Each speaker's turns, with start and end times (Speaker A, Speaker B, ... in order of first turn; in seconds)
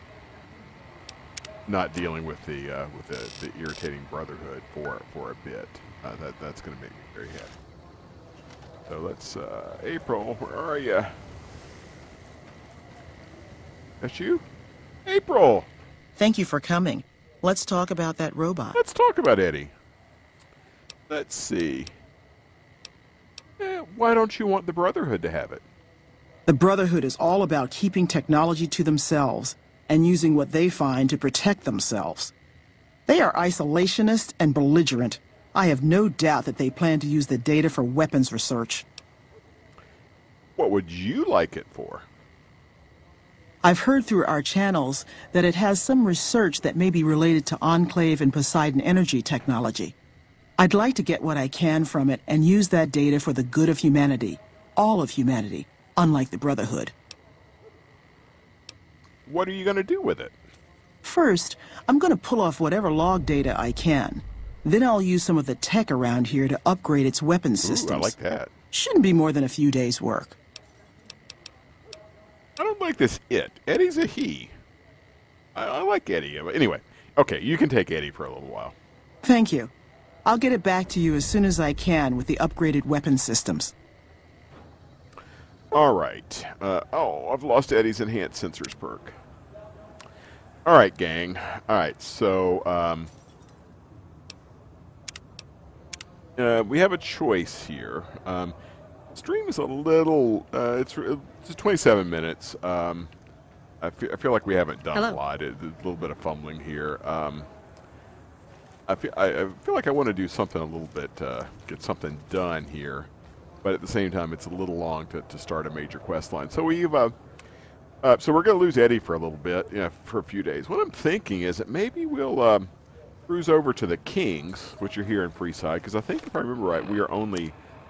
Speaker A: 1.7-7.5, 8.9-11.1, 14.0-14.4, 15.1-15.7, 18.7-19.7, 21.1-21.9, 23.6-25.6, 40.6-42.1, 59.3-60.3, 67.6-68.5, 72.6-74.5, 75.5-78.7, 85.7-89.1, 90.6-93.1, 96.4-98.5, 99.1-103.1, 103.8-107.5, 108.9-113.1, 113.6-117.1, 118.0-122.7, 123.3-127.5
Speaker B: 16.2-18.8, 26.5-32.3, 33.1-38.8, 43.6-49.9, 50.6-56.9, 61.0-68.2, 68.7-70.3, 79.2-79.7, 80.2-83.7